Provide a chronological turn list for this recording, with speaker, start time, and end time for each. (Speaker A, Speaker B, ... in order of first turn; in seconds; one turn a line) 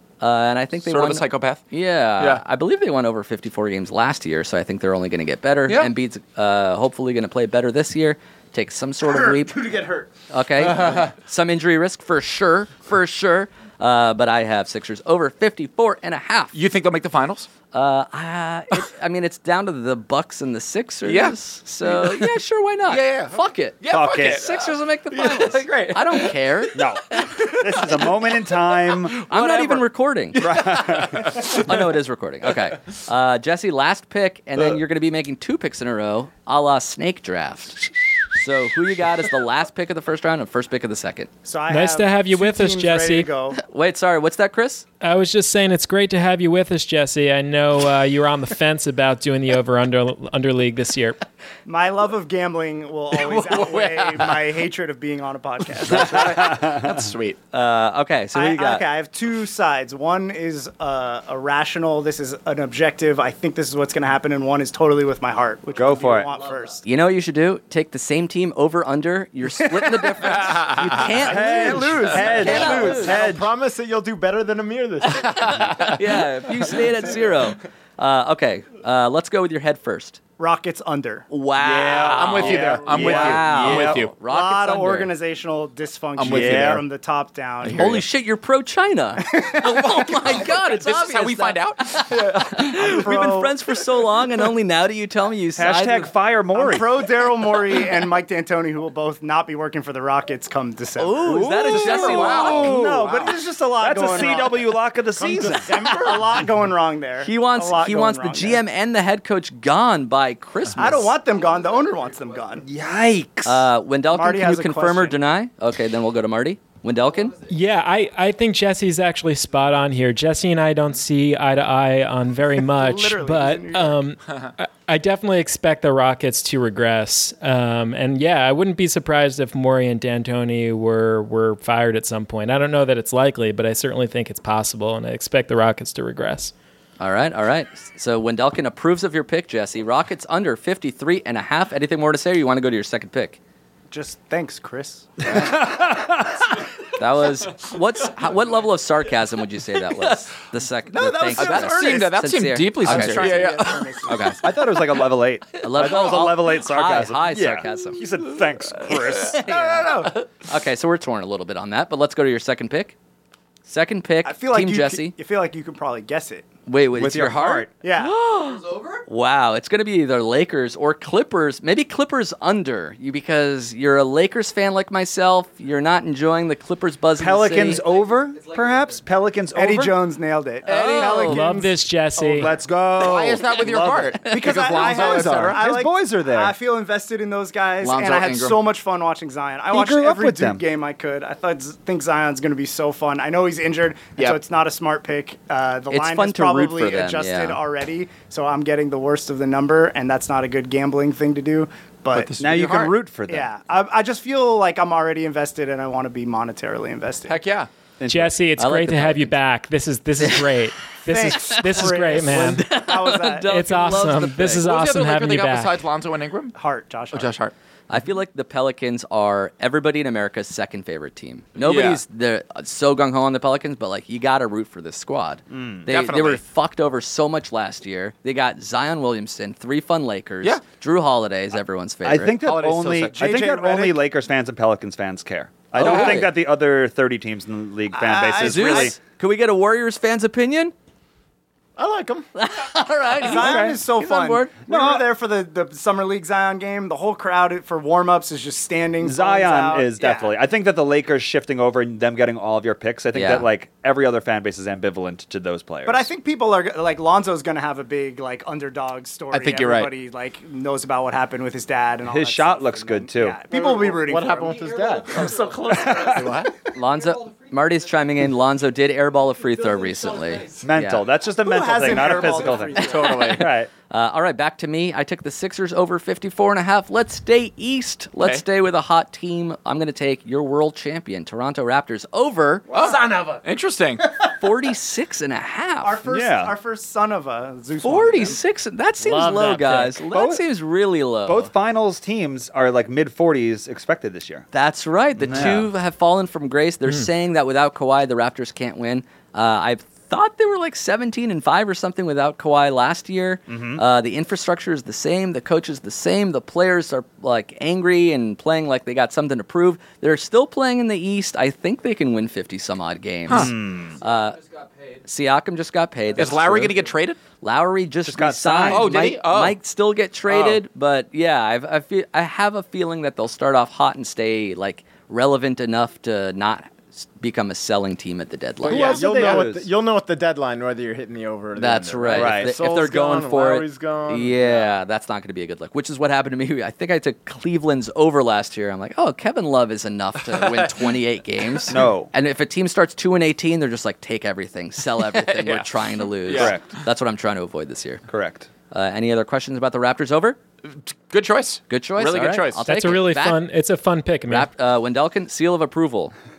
Speaker A: 0.2-16.6
Speaker B: 0.8-1.6
Speaker B: 10.6-11.1
Speaker B: 16.5-17.5
Speaker A: 17.7-26.8
Speaker B: 21.1-22.3
Speaker B: 22.9-31.7
Speaker C: 23.9-24.5
Speaker C: 26.7-29.2
Speaker A: 29.3-30.4
Speaker C: 30.4-31.7
Speaker A: 31.4-41.3
Speaker D: 41.5-43.6
Speaker E: 41.7-43.3
Speaker A: 43.6-44.9
Speaker E: 45.0-51.2
Speaker D: 51.7-56.6
Speaker B: 53.1-54.4
Speaker B: 55.9-57.4
Speaker C: 56.1-57.0
Speaker A: 57.5-58.9
Speaker D: 58.3-66.8
Speaker C: 65.8-66.3
Speaker A: 66.8-73.2
Speaker B: 70.3-71.1
Speaker C: 70.9-73.5
Speaker D: 71.2-73.2
Speaker F: 72.5-75.9
Speaker A: 75.3-80.2
Speaker D: 80.4-81.3
Speaker A: 81.3-85.1
Speaker C: 81.6-84.0
Speaker B: 82.1-84.1
Speaker D: 82.4-88.0
Speaker B: 86.2-86.8
Speaker C: 86.2-86.8
Speaker A: 87.7-96.1
Speaker D: 89.3-89.9
Speaker B: 89.7-92.5
Speaker D: 92.6-93.5
Speaker C: 95.6-97.0
Speaker D: 96.5-104.7
Speaker A: 101.0-102.8
Speaker C: 101.2-106.0
Speaker B: 101.7-102.9
Speaker F: 105.2-106.3
Speaker D: 105.7-108.6
Speaker A: 107.2-111.1
Speaker D: 110.8-112.7
Speaker C: 112.6-113.7
Speaker A: 113.4-117.4
Speaker D: 114.1-115.2
Speaker E: 117.5-136.5
Speaker D: 122.7-124.0
Speaker A: 137.0-143.4
Speaker D: 143.9-145.6
Speaker C: 145.2-146.4
Speaker A: 147.0-154.4
Speaker D: 150.9-152.2
Speaker B: 151.3-154.1
Speaker D: 152.8-154.6
Speaker C: 154.4-159.4
Speaker A: 155.6-158.0
Speaker A: 159.3-162.9
Speaker D: 159.5-160.1
Speaker A: 163.7-165.1
Speaker D: 164.2-166.5
Speaker A: 166.7-177.9
Speaker C: 166.9-167.7
Speaker D: 167.8-168.2
Speaker C: 177.2-180.0
Speaker D: 179.5-181.7
Speaker A: 180.7-181.4
Speaker B: 180.7-181.0
Speaker E: 181.2-182.6
Speaker F: 181.3-181.7
Speaker C: 182.2-186.6
Speaker B: 182.9-185.6
Speaker D: 184.2-202.4
Speaker B: 187.8-188.6
Speaker C: 189.7-190.6
Speaker A: 195.9-197.6
Speaker B: 202.1-202.9
Speaker C: 202.4-203.5
Speaker D: 203.3-207.4
Speaker B: 207.3-207.7
Speaker C: 208.0-208.4
Speaker E: 208.1-212.7
Speaker A: 208.6-209.4
Speaker D: 211.1-213.6
Speaker A: 211.7-214.7
Speaker E: 213.4-215.8
Speaker B: 214.6-216.5
Speaker D: 216.6-217.4
Speaker B: 217.1-217.5
Speaker A: 217.9-232.4
Speaker B: 221.6-222.0
Speaker C: 225.5-225.9
Speaker C: 232.0-239.0
Speaker B: 232.4-233.2
Speaker F: 233.1-233.8
Speaker A: 235.8-236.3
Speaker B: 235.8-236.3
Speaker D: 237.9-238.9
Speaker A: 238.4-240.7
Speaker F: 241.8-242.3
Speaker A: 242.3-244.5
Speaker D: 243.2-250.4
Speaker C: 243.3-243.8
Speaker C: 244.6-245.1
Speaker C: 249.0-256.1
Speaker A: 253.1-253.5
Speaker D: 255.9-266.2
Speaker B: 259.3-259.9
Speaker C: 262.0-263.4
Speaker F: 263.5-265.5
Speaker B: 265.3-266.5
Speaker C: 265.6-266.4
Speaker A: 266.7-271.1
Speaker C: 270.6-273.7
Speaker D: 271.3-273.4
Speaker B: 272.8-273.5
Speaker A: 273.9-282.7
Speaker B: 282.7-284.1
Speaker F: 282.8-283.4
Speaker A: 284.4-286.0
Speaker D: 285.8-288.4
Speaker C: 286.1-286.6
Speaker A: 287.8-291.5
Speaker F: 289.0-290.0
Speaker C: 289.9-290.4
Speaker C: 291.3-294.5
Speaker A: 294.5-314.4
Speaker C: 295.2-295.7
Speaker C: 303.5-303.8
Speaker B: 313.3-313.6
Speaker C: 313.3-314.0
Speaker B: 314.1-314.5
Speaker A: 315.1-316.8
Speaker B: 316.2-317.2
Speaker A: 317.4-329.3
Speaker C: 318.0-319.1
Speaker B: 318.7-319.6
Speaker B: 320.3-320.6
Speaker F: 328.7-334.7
Speaker C: 328.7-329.7
Speaker A: 331.6-348.0
Speaker C: 332.1-332.6
Speaker C: 341.7-342.1
Speaker B: 345.1-346.6
Speaker C: 346.3-346.7
Speaker C: 348.1-348.5
Speaker A: 348.7-350.4
Speaker B: 350.7-352.6
Speaker A: 351.7-353.4
Speaker E: 352.7-354.5
Speaker A: 354.3-356.1